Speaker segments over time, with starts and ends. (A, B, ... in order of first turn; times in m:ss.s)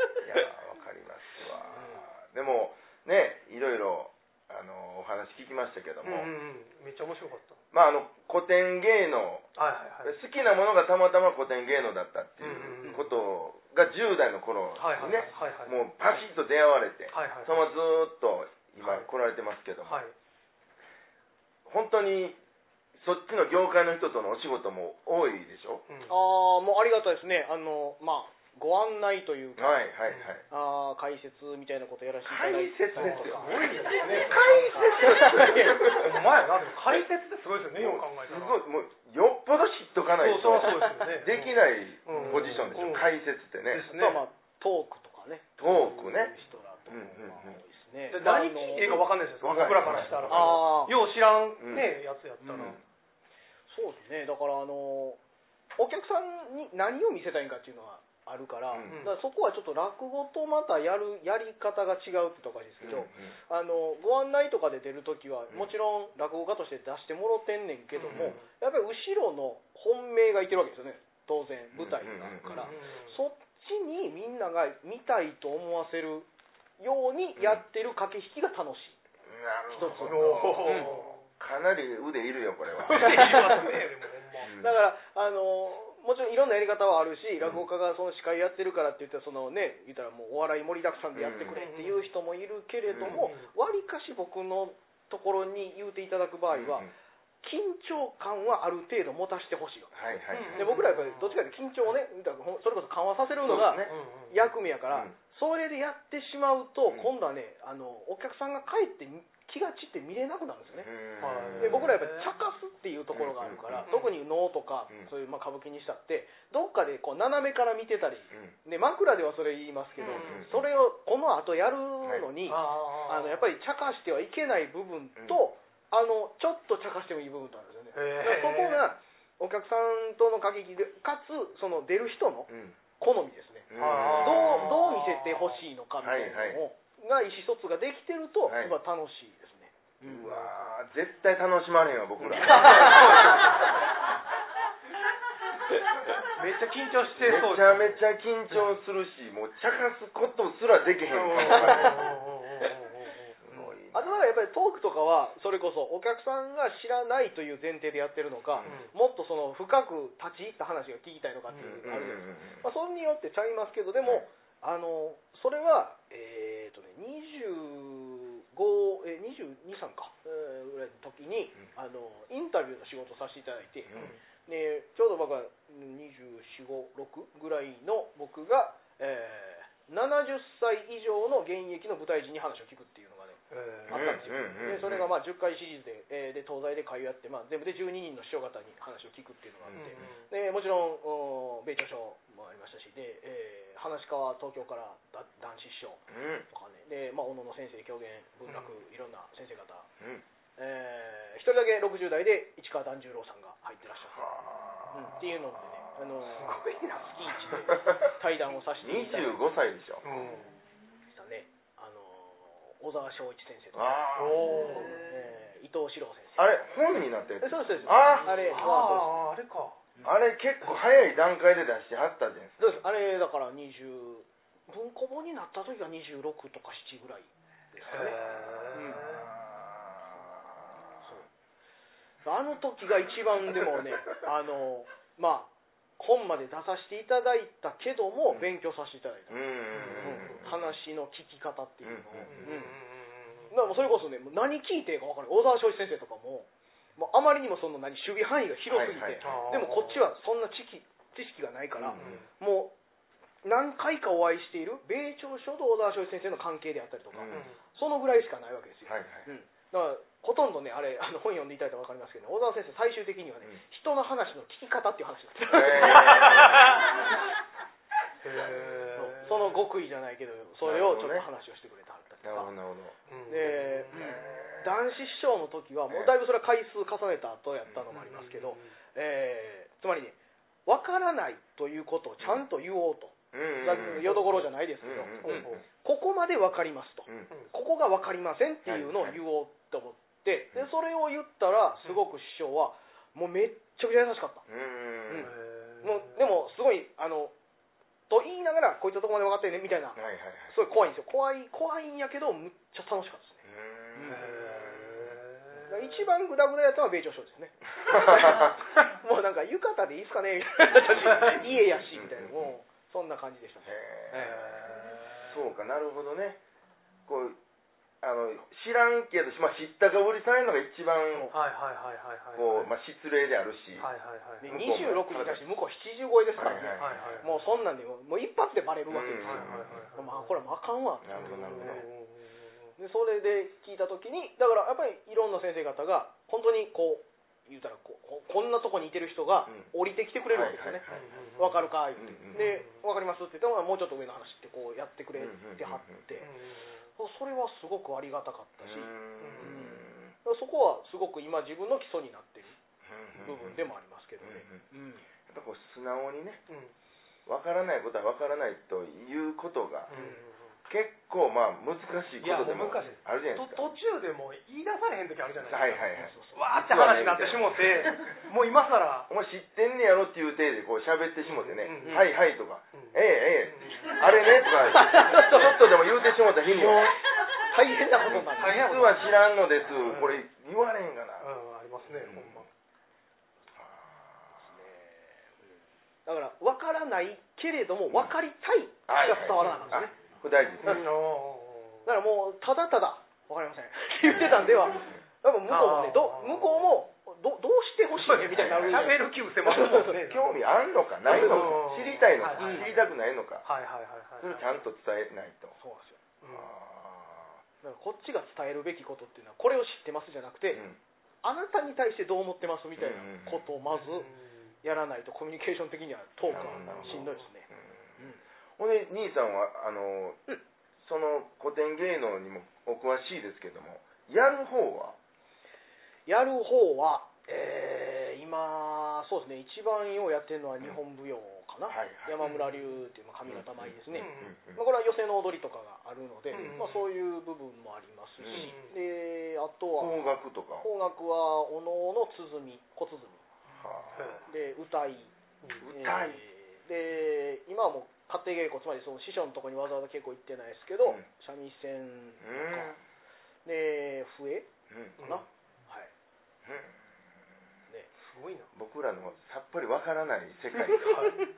0:00.2-0:06.3 A
0:01.7-0:02.0 B
0:06.0-0:07.6 C
0:07.7-0:09.5 A
0:09.6-0:10.1 C
0:10.0-0:20.0 A
0:12.4-0:13.0 C
0:14.8-0:15.8 C
0:17.1-0:17.7 C
0:18.8-0:19.1 C
0:19.8-0:20.1 C
0:21.6-0:22.4 A
0:23.0-0:25.8 A
0:26.1-0:29.8 B
0:29.6-0:30.4 A
0:30.5-0:36.0 B
0:32.2-0:36.1 A
0:33.0-0:38.6 C
0:37.8-0:43.8 A
0:40.2-0:43.1 C
0:42.1-0:42.6 B
0:43.7-0:44.2 C
0:43.8-0:49.0 B
0:45.6-0:46.3 A
0:46.9-0:47.6 A
0:48.1-0:52.8 C
0:49.4-0:50.6 A
0:50.3-0:50.9 B
0:51.6-0:51.9 A
0:52.4-0:52.8 B
0:52.5-0:52.8 A
0:53.7-0:55.2 B
0:55.8-1:16.3 B
0:58.7-0:59.0 A
0:58.8-0:59.1 C
1:02.8-1:03.3 A
1:07.9-1:08.4 C
1:08.1-1:08.4 A
1:11.7-1:12.7 A
1:12.6-1:13.1 C
1:16.8-1:19.0 B
1:17.4-1:17.6 A
1:19.2-1:23.7 A
1:19.7-1:21.0 B
1:19.8-1:21.2 C
1:22.8-1:24.5 C
1:22.9-1:23.7 B
1:24.4-1:24.7 A
1:24.5-1:36.9 B
1:27.4-1:27.6 A
1:31.1-1:31.6 A
1:31.5-1:32.1 C
1:32.9-1:33.2 A
1:33.1-1:33.5 C
1:36.5-1:36.9 A
1:37.4-1:39.9 B
1:39.9-1:40.7 A
1:40.3-1:41.4 C
1:40.5-1:50.9 B
1:43.4-1:43.9 A
1:43.8-1:44.3 C
1:50.8-1:52.0 A
1:51.2-1:52.3 C
1:51.6-2:20.3 B
1:53.1-1:53.9 A
1:53.8-1:54.1 C
2:00.0-2:00.4 C
2:00.1-2:00.6 A
2:02.5-2:03.4 C
2:05.2-2:05.4 A
2:07.9-2:08.8 C
2:12.5-2:12.8 A
2:13.7-2:14.8 A
2:13.8-2:15.6 C
2:16.0-2:16.6 A
2:18.5-2:18.7 A
2:20.0-2:23.5 A
2:22.2-2:23.6 C
2:22.4-2:23.4 B
2:26.4-2:28.0 C
2:27.2-2:32.1 A
2:31.1-2:33.7 C
2:31.4-2:32.0 B
2:33.4-2:34.2 A
2:33.9-3:19.9 B
2:38.6-2:38.8 A
2:38.6-2:38.9 C
2:41.5-2:41.8 C
2:41.6-2:42.6 A
2:53.9-2:54.1 A
3:03.5-3:04.3 C
3:03.9-3:05.1 A
3:09.6-3:10.1 A
3:09.7-3:10.2 C
3:16.1-3:16.5 A
3:20.0-3:20.2 A
3:20.6-3:24.4 B
3:24.1-3:25.1 A
3:24.9-3:29.4 B
3:26.4-3:27.0 C
3:27.8-3:28.1 A
3:28.8-3:30.0 A
3:30.0-3:30.5 C
3:31.1-3:36.6 B
3:33.7-3:34.8 A
3:34.2-3:35.0 C
3:36.4-3:38.5 A
3:37.4-3:39.2 B
3:38.4-3:39.8 C
3:40.0-3:42.8 A
3:42.6-3:49.0 B
3:47.9-3:49.3 C
3:49.0-3:50.0 A
3:52.2-4:02.8 B
3:59.3-4:00.7 A
3:59.7-4:00.4 C
4:01.8-4:02.7 A
4:02.3-4:03.8 C
4:03.5-4:12.7 B
4:08.7-4:09.5 A
4:09.2-4:10.0 C
4:11.8-4:12.2 A
4:12.0-4:12.2 C
4:13.4-4:26.8 B
4:17.1-4:17.5 A
4:17.3-4:17.6 C
4:18.8-4:19.3 A
4:25.5-4:26.8 A
4:25.9-4:26.8 C
4:28.2-4:29.6 C
4:28.9-4:32.5 B
4:30.6-4:31.2 A
4:32.2-4:34.8 A
4:33.1-4:34.2 C
4:33.3-4:54.4 B
4:35.9-4:36.1 A
4:37.9-4:38.7 C
4:43.3-4:44.2 A
4:43.7-4:44.4 C
4:44.8-4:45.6 A
4:45.2-4:45.6 C
4:48.6-4:49.2 A
4:54.5-4:55.3 A
4:55.2-4:56.2 C
4:55.8-4:57.3 B
4:58.1-5:03.4 B
4:59.9-5:00.5 A
5:03.4-5:05.2 A
5:03.9-5:04.2 B
5:04.1-5:06.0 C
5:05.6-5:13.7 B
5:07.8-5:08.6 A
5:10.7-5:12.5 A
5:13.6-5:16.4 A
5:14.1-5:15.3 C
5:17.1-5:17.4 A
5:18.0-5:21.3 A
5:21.3-5:22.7 C
5:22.3-5:23.9 A
5:23.8-5:24.4 C
5:24.4-5:31.8 B
5:24.4-5:25.4 A
5:26.4-5:27.3 A
5:26.8-5:27.3 C
5:28.9-5:29.8 A
5:29.2-5:30.4 C
5:31.0-5:31.8 A
5:31.1-5:32.4 C
5:32.8-5:40.8 B
5:40.3-5:41.4 A
5:40.9-5:41.7 C
5:41.4-5:46.3 B
5:42.0-5:42.6 A
5:42.3-5:42.6 C
5:45.2-5:46.2 A
5:46.2-5:46.8 C
5:47.0-5:52.6 B
5:48.6-5:50.1 A
5:49.2-5:49.6 C
5:52.8-5:53.7 A
5:53.2-5:55.0 B
5:54.2-5:54.6 A
5:55.3-5:56.4 A
5:57.3-5:59.9 A
5:59.9-6:00.3 C
5:59.9-6:00.2 B
6:00.7-6:03.7 A
6:02.2-6:09.1 C
6:05.4-6:08.0 A
6:06.0-6:06.4 B
6:09.1-6:16.9 A
6:11.2-6:12.1 C
6:12.7-6:14.1 C
6:14.7-6:15.6 B
6:14.7-6:15.1 C
6:16.5-6:18.8 B
6:18.0-6:21.3 A
6:18.4-6:19.2 C
6:19.7-6:20.2 C
6:21.2-6:22.5 C
6:21.8-6:22.4 A
6:23.6-6:24.2 A
6:24.5-6:25.0 B
6:26.0-6:29.9 B
6:28.9-6:30.8 A
6:29.4-6:29.7 C
6:30.6-6:31.8 C
6:31.8-6:40.1 B
6:34.1-6:34.9 A
6:35.5-6:36.7 C
6:38.0-6:40.2 C
6:38.3-6:39.0 A
6:39.8-6:43.4 A
6:41.0-6:42.8 C
6:41.1-6:41.5 B
6:42.3-6:42.7 B
6:43.4-6:44.4 C
6:44.2-6:45.5 A
6:45.6-6:46.0 B
6:46.2-6:46.5 C
6:46.2-6:47.4 A
6:47.6-6:50.6 B
6:50.5-6:50.8 A
6:51.2-6:54.1 B
6:52.8-6:53.4 A
6:53.7-6:54.2 C
6:54.6-6:57.5 B
6:56.3-6:57.2 C
6:56.3-6:58.0 A
6:58.6-7:00.2 A
7:00.8-7:05.0 A
7:06.0-7:20.0 B
7:11.7-7:12.2 A
7:12.2-7:12.6 C
7:13.3-7:14.6 A
7:13.9-7:14.3 C
7:16.3-7:16.9 C
7:18.2-7:18.5 A
7:18.3-7:18.7 C
7:19.8-7:20.7 A
7:20.6-7:23.2 B
7:23.5-7:24.2 A
7:23.9-7:24.2 C
7:24.3-7:25.1 B
7:25.6-7:26.2 A
7:25.6-7:32.7 B
7:32.2-7:32.8 A
7:33.4-7:34.5 B
7:34.7-7:35.0 A
7:35.0-7:35.2 C
7:35.0-7:35.9 B
7:36.4-7:36.7 A
7:38.0-7:38.5 C
7:38.5-7:41.2 A
7:40.7-7:41.2 B